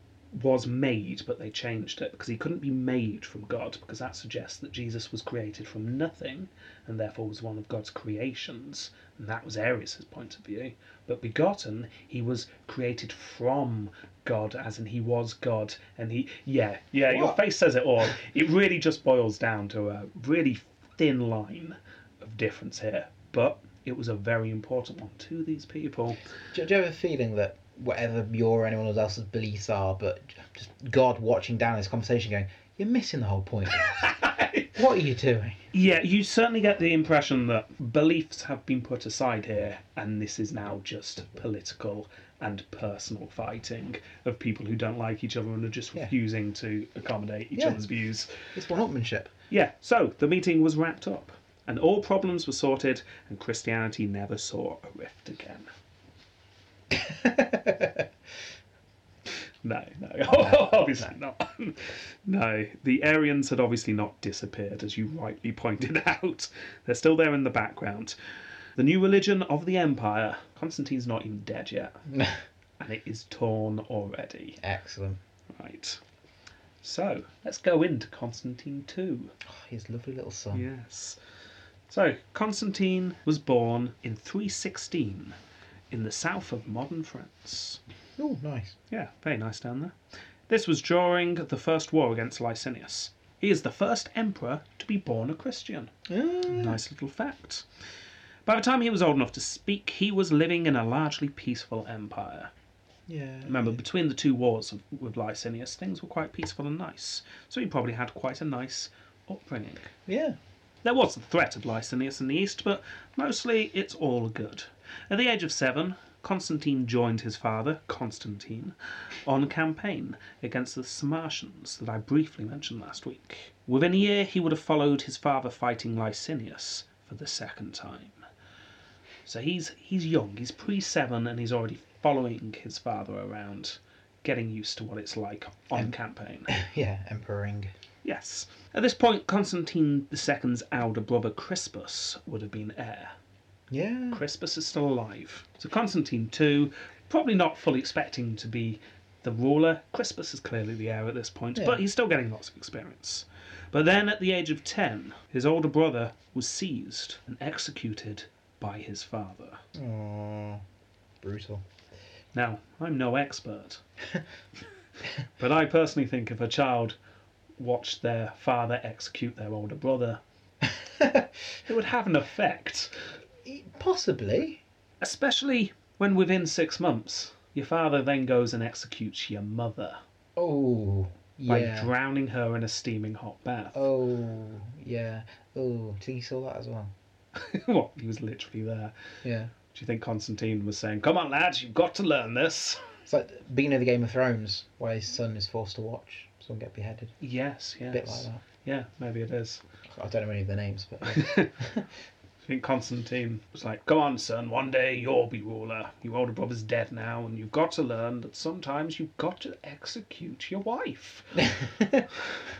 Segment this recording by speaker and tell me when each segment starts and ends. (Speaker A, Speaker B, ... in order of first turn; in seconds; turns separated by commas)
Speaker A: 0.3-26.2, Speaker B: 17.1-17.4, Speaker B: 26.5-34.0, Speaker A: 33.9-34.7, Speaker B: 34.7-35.6, Speaker A: 35.7-48.3, Speaker B: 47.5-47.8, Speaker B: 48.5-49.3, Speaker A: 49.5-55.7, Speaker B: 56.9-58.0, Speaker A: 59.6-68.1, Speaker B: 60.3-61.1, Speaker A: 68.8-72.0, Speaker B: 72.1-72.4, Speaker A: 72.8-74.6, Speaker B: 74.6-75.2, Speaker A: 75.5-76.0, Speaker A: 76.8-79.3, Speaker B: 79.5-80.6, Speaker A: 80.5-81.2, Speaker A: 81.9-85.3, Speaker A: 85.9-87.8, Speaker B: 88.2-88.8, Speaker A: 88.9-89.9, Speaker A: 90.5-95.9, Speaker B: 96.1-96.8, Speaker A: 96.5-97.6, Speaker A: 98.5-102.5, Speaker B: 103.1-103.8, Speaker A: 103.5-109.9, Speaker B: 110.1-110.4, Speaker A: 110.8-118.7, Speaker A: 119.2-128.2, Speaker A: 129.2-136.5, Speaker B: 136.5-137.7, Speaker A: 138.0-143.1, Speaker B: 143.7-144.2, Speaker A: 144.1-159.6, Speaker B: 159.7-160.6, Speaker B: 161.2-161.6, Speaker A: 162.3-163.8, Speaker A: 165.4-167.0, Speaker A: 167.6-170.2, Speaker B: 170.7-171.3, Speaker A: 171.7-172.9, Speaker B: 173.4-174.6, Speaker A: 175.0-180.0, Speaker B: 180.3-181.9, Speaker A: 181.5-183.9, Speaker B: 183.7-186.9, Speaker A: 187.3-188.9, Speaker B: 189.2-189.5, Speaker A: 189.7-192.9, Speaker B: 193.1-197.1, Speaker A: 197.2-199.6, Speaker B: 197.9-198.4, Speaker B: 199.9-201.9, Speaker A: 201.1-201.5, Speaker A: 202.4-211.5, Speaker B: 211.4-212.1